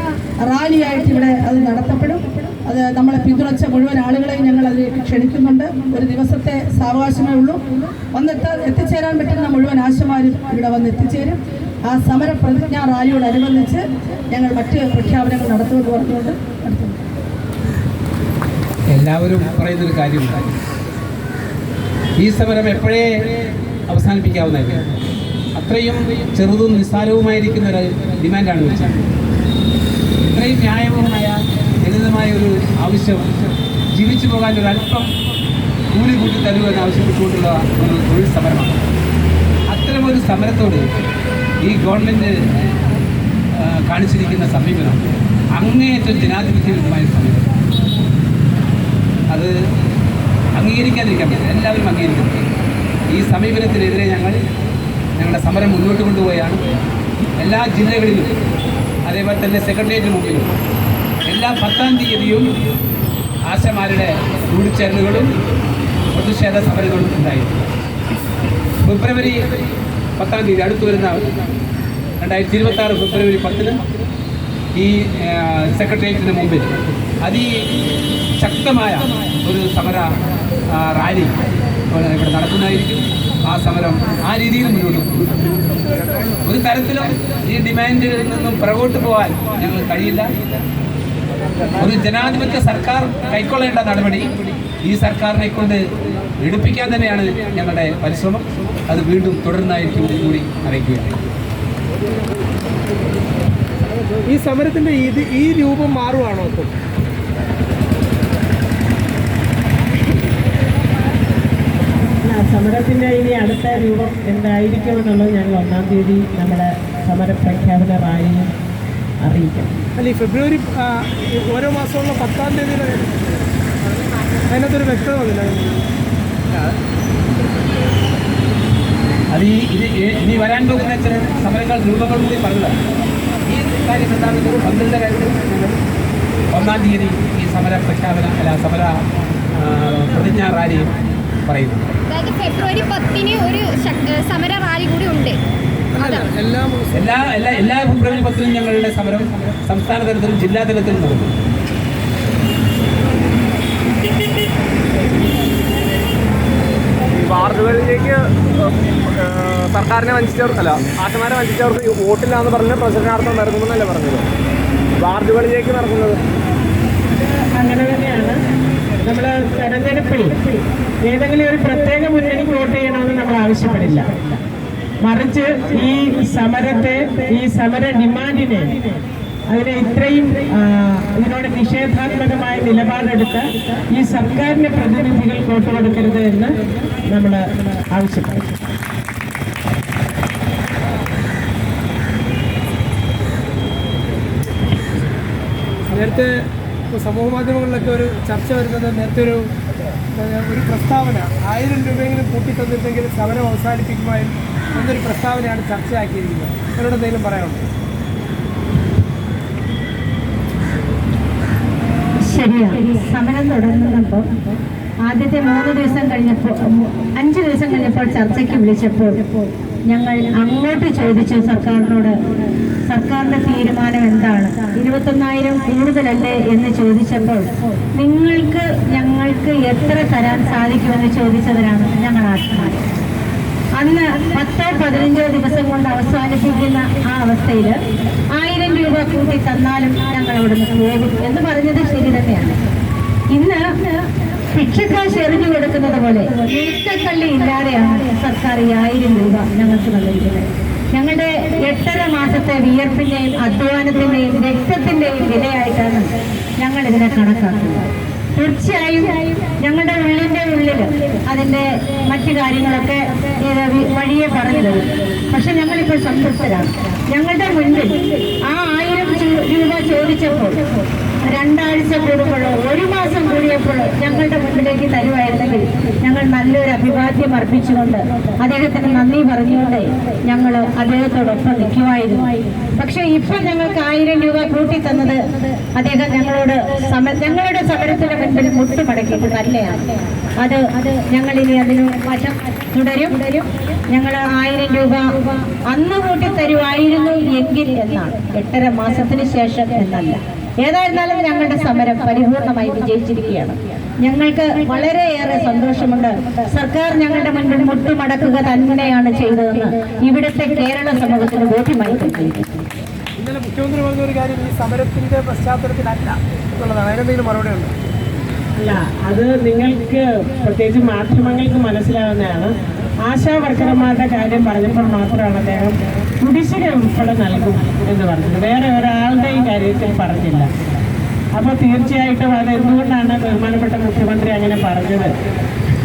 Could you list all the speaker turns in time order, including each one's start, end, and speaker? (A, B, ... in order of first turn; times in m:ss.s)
0:00.4-0:17.0 A
0:18.9-0:20.5 B
0:22.2-0:23.2 B
0:23.9-0:24.9 B
0:25.5-0:29.0 B
0:30.3-0:33.3 B
0:33.9-0:35.1 B
0:35.9-0:38.8 B
0:39.7-0:40.9 B
0:41.6-0:42.3 B
0:43.5-0:45.0 B
0:45.6-0:47.5 B
0:50.6-0:52.4 B
0:53.1-0:54.4 B
0:55.1-0:56.6 B
0:57.4-0:58.3 B
0:59.0-1:00.5 B
1:01.2-1:02.5 B
1:03.5-1:05.3 B
1:06.1-1:07.7 B
1:08.8-1:09.4 B
1:10.2-1:11.2 B
1:12.2-1:13.8 B
1:14.8-1:16.7 B
1:17.2-1:17.5 B
1:18.4-1:20.1 B
1:20.7-1:21.3 B
1:21.9-1:25.4 B
1:26.4-1:30.3 B
1:31.8-1:35.8 B
1:36.4-1:41.1 B
1:44.2-1:46.7 C
1:52.2-1:58.5 D
1:59.2-1:59.8 D
2:00.0-2:03.4 C
2:04.5-2:05.9 C
2:09.3-2:12.8 B
2:13.5-2:15.8 B
2:16.5-2:19.0 B
2:19.5-2:20.9 B
2:21.5-2:21.9 B
2:22.1-2:25.4 E
2:25.9-2:26.3 E
2:26.0-2:26.9 C
2:26.9-2:31.3 B
2:37.1-2:44.3 F
2:45.0-2:46.2 F
2:47.5-2:48.4 D
2:49.0-2:50.4 D
2:51.0-2:54.4 D
2:55.0-2:58.8 D
2:59.5-3:06.5 D
3:07.1-3:08.6 D
3:15.9-3:19.5 C
3:20.2-3:27.6 C
3:32.2-3:34.3 G
3:35.1-3:39.2 G
3:39.9-3:42.2 G
3:42.9-3:52.8 G
3:53.8-3:57.8 G
3:58.4-4:02.6 G
4:03.3-4:03.6 G
4:04.5-4:30.6 G
4:31.3-4:55.1 G
4:55.7-5:12.7 G
5:13.2-5:17.7 C
5:18.6-5:22.5 D
5:23.0-5:30.5 D
5:31.4-5:35.1 D